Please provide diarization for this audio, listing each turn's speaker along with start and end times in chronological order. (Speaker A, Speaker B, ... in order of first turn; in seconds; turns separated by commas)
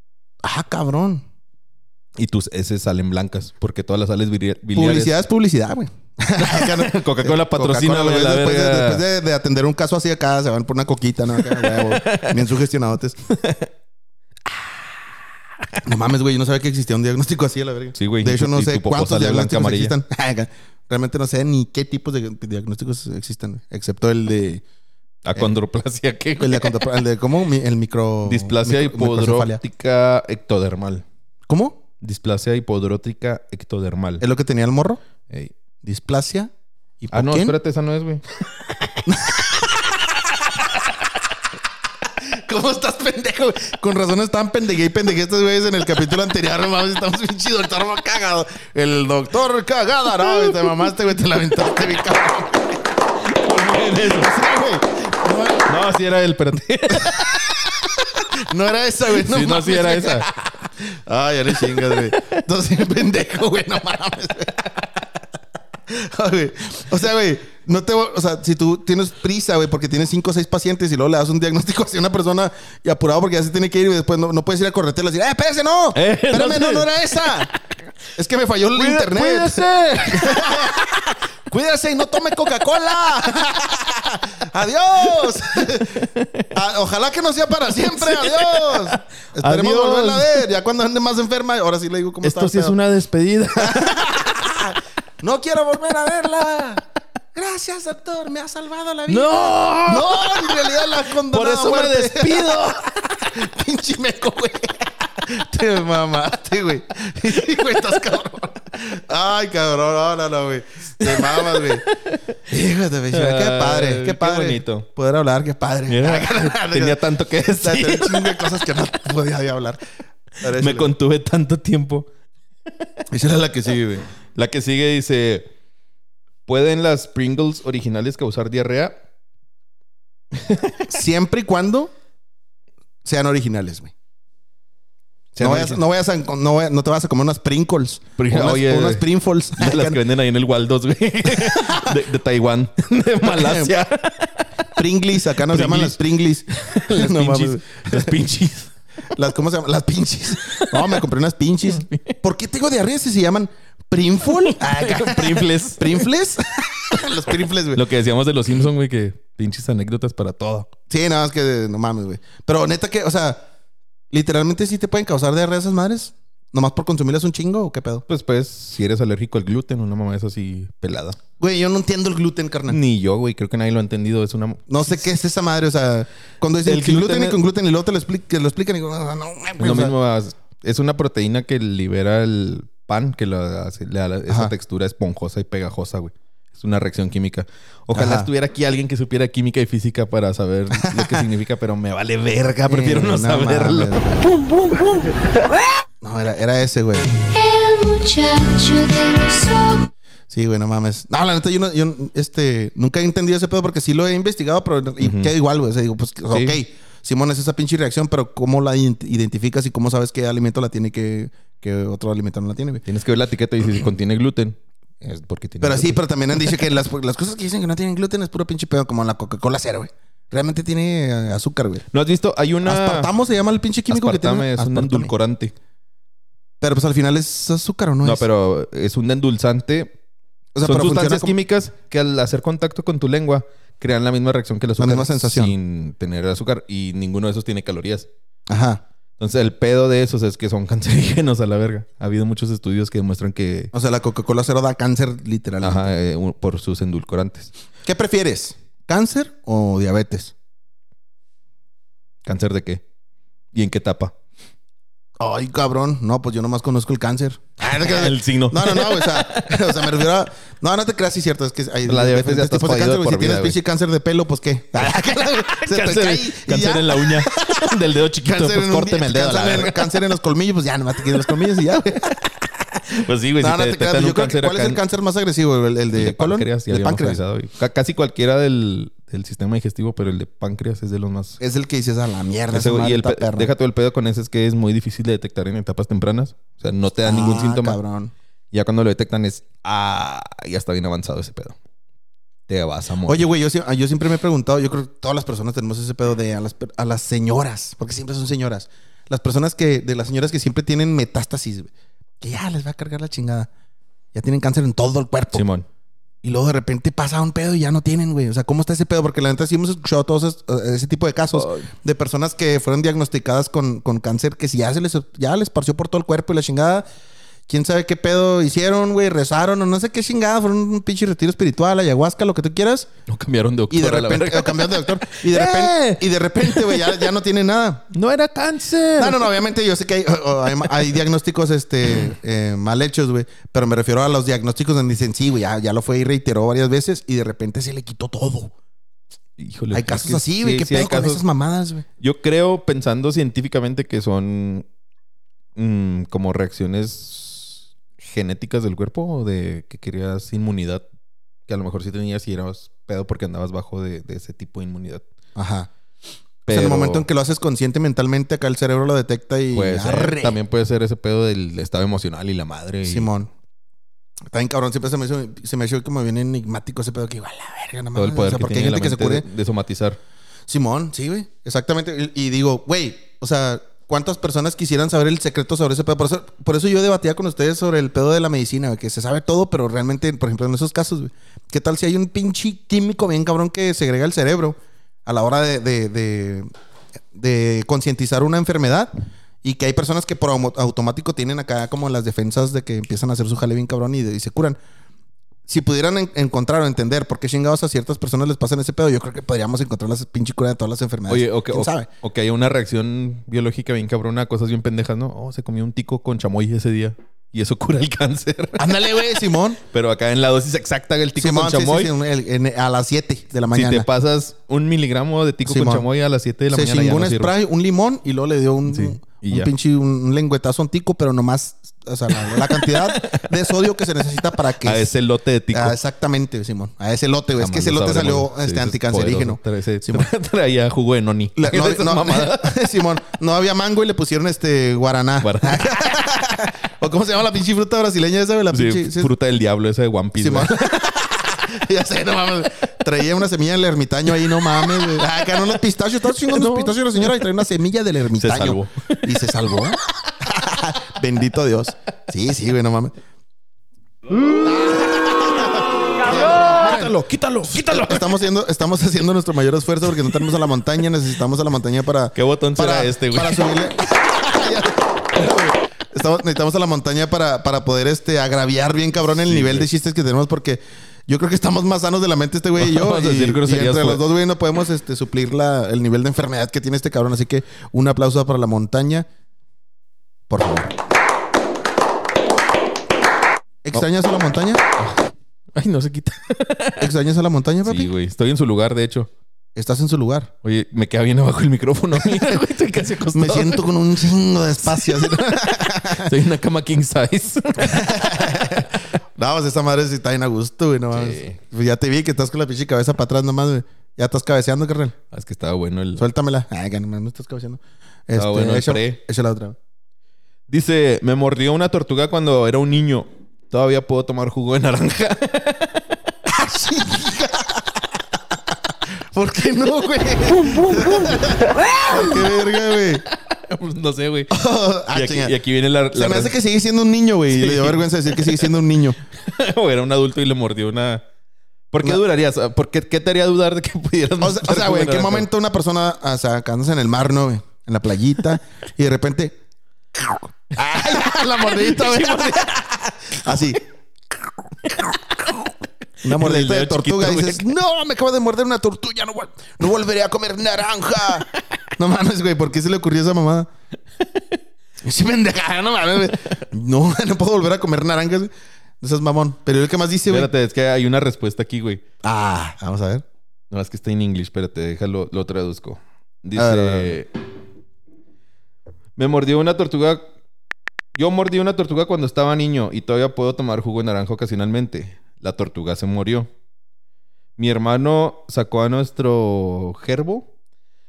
Speaker A: 0.4-1.2, Speaker B: 2.1-5.2, Speaker A: 4.7-13.2, Speaker B: 6.4-9.0, Speaker B: 11.3-12.5, Speaker B: 13.3-13.7, Speaker A: 15.8-24.6, Speaker B: 17.9-19.9, Speaker B: 25.2-26.9, Speaker A: 26.4-29.6, Speaker B: 28.2-31.0, Speaker A: 31.5-31.8, Speaker B: 32.0-34.2, Speaker A: 34.2-35.0, Speaker A: 35.8-37.5, Speaker B: 37.1-38.2, Speaker A: 39.0-40.0, Speaker A: 42.2-52.7, Speaker B: 50.2-50.8, Speaker B: 53.2-54.3, Speaker A: 53.9-55.7, Speaker B: 55.6-57.9, Speaker A: 57.0-57.4, Speaker A: 58.3-64.8, Speaker B: 59.1-60.3, Speaker B: 61.5-62.3, Speaker A: 65.9-77.5, Speaker B: 75.9-77.4, Speaker A: 78.1-92.7, Speaker B: 78.7-80.9, Speaker B: 85.2-86.5, Speaker B: 87.8-90.4, Speaker B: 92.2-94.5, Speaker A: 93.6-111.9, Speaker B: 99.1-102.9, Speaker B: 111.0-112.2, Speaker A: 112.5-119.8, Speaker B: 113.1-114.9, Speaker B: 115.9-118.6, Speaker A: 120.4-120.9, Speaker B: 120.4-122.1, Speaker A: 123.1-124.0, Speaker B: 124.3-125.5, Speaker B: 126.5-129.0, Speaker B: 130.3-130.9, Speaker A: 130.9-131.9, Speaker A: 133.0-133.9, Speaker B: 135.3-135.8, Speaker A: 135.4-140.0, Speaker B: 138.2-144.6, Speaker A: 141.3-141.9, Speaker A: 143.2-143.7, Speaker A: 144.7-148.1, Speaker B: 145.4-148.7, Speaker A: 149.1-157.8, Speaker B: 150.4-151.0, Speaker B: 151.7-152.1, Speaker B: 154.2-156.1, Speaker B: 157.7-160.7, Speaker A: 160.9-163.4, Speaker A: 164.1-168.0, Speaker B: 168.1-171.2, Speaker A: 171.4-172.8, Speaker B: 172.7-175.1, Speaker A: 174.7-179.9, Speaker B: 176.6-177.4, Speaker B: 179.6-194.2, Speaker A: 187.9-188.3, Speaker A: 190.7-191.2, Speaker A: 192.7-194.3, Speaker A: 196.0-197.1, Speaker C: 197.3-199.9, Speaker A: 200.3-212.8, Speaker B: 205.0-205.3, Speaker B: 206.3-206.6, Speaker B: 212.8-216.6, Speaker A: 215.6-221.8, Speaker B: 221.9-223.1, Speaker A: 222.6-225.1, Speaker B: 223.9-225.5, Speaker A: 226.6-228.2, Speaker B: 228.0-229.9, Speaker A: 230.5-231.3, Speaker B: 230.6-238.1, Speaker A: 234.8-235.5, Speaker A: 238.5-238.8, Speaker B: 239.2-243.7, Speaker A: 243.7-245.8, Speaker B: 245.6-247.5, Speaker A: 247.8-250.3, Speaker B: 252.2-252.8, Speaker B: 253.5-254.1, Speaker A: 255.2-272.8, Speaker B: 257.7-260.1, Speaker B: 261.9-263.6, Speaker B: 264.8-270.0, Speaker B: 273.0-274.8, Speaker A: 273.4-277.2, Speaker B: 275.9-281.4, Speaker A: 281.4-283.5, Speaker B: 282.5-287.8, Speaker A: 287.0-288.1, Speaker B: 288.5-291.6, Speaker B: 292.5-293.2, Speaker A: 293.0-303.5, Speaker A: 304.1-305.4, Speaker B: 305.3-305.6, Speaker A: 306.2-316.9, Speaker B: 311.3-311.6, Speaker A: 317.5-322.9, Speaker B: 323.1-327.1, Speaker A: 323.7-327.9, Speaker B: 327.9-329.4, Speaker A: 329.0-338.5, Speaker B: 330.6-330.9, Speaker B: 339.4-341.2, Speaker A: 339.7-341.8, Speaker B: 342.0-344.6, Speaker B: 345.6-350.8, Speaker B: 351.5-355.0, Speaker A: 355.4-355.7, Speaker B: 356.4-357.1, Speaker A: 356.5-360.4, Speaker B: 359.5-363.1, Speaker A: 362.9-363.3, Speaker A: 364.3-369.3, Speaker B: 367.9-370.0, Speaker A: 370.5-386.5, Speaker A: 387.1-388.9, Speaker A: 389.4-394.6, Speaker A: 395.5-401.9, Speaker B: 401.1-411.9, Speaker A: 408.6-409.6, Speaker A: 411.2-413.9, Speaker B: 413.5-417.3, Speaker A: 415.4-415.9, Speaker A: 416.5-424.9, Speaker B: 418.7-419.5, Speaker B: 422.1-423.3, Speaker B: 424.6-425.8, Speaker A: 425.5-430.1, Speaker B: 427.4-432.6, Speaker A: 431.4-439.1, Speaker B: 435.2-436.0, Speaker B: 438.5-440.8, Speaker A: 440.2-452.9, Speaker B: 444.3-445.5, Speaker B: 446.2-447.3, Speaker B: 448.2-449.2, Speaker B: 454.1-458.2, Speaker A: 454.4-479.1, Speaker B: 462.1-463.5, Speaker B: 469.2-469.7, Speaker B: 472.6-474.0, Speaker A: 480.3-480.7, Speaker A: 483.6-484.6, Speaker B: 484.8-485.0, Speaker B: 485.5-486.9, Speaker A: 486.8-487.9, Speaker B: 487.6-489.1, Speaker A: 489.6-490.3, Speaker B: 490.4-493.7, Speaker A: 493.1-496.1, Speaker B: 494.6-498.7, Speaker A: 497.6-504.9, Speaker B: 500.9-501.4, Speaker B: 505.1-506.0, Speaker A: 506.0-509.6, Speaker B: 508.1-509.0, Speaker B: 510.5-515.9, Speaker A: 516.3-517.9, Speaker A: 519.1-523.0, Speaker B: 521.9-522.3, Speaker B: 523.1-524.4, Speaker A: 524.3-525.3, Speaker B: 524.9-526.4, Speaker A: 525.9-529.0, Speaker B: 527.3-528.5, Speaker B: 529.1-531.0, Speaker B: 531.7-535.3, Speaker A: 534.2-539.4, Speaker A: 540.0-543.6, Speaker B: 540.7-543.4, Speaker A: 546.0-553.5, Speaker B: 546.0-547.4, Speaker A: 554.8-560.3, Speaker B: 560.1-561.8, Speaker A: 562.0-563.0, Speaker B: 563.5-567.1, Speaker A: 566.4-567.0, Speaker B: 569.0-570.0, Speaker B: 570.9-576.3, Speaker B: 577.4-580.3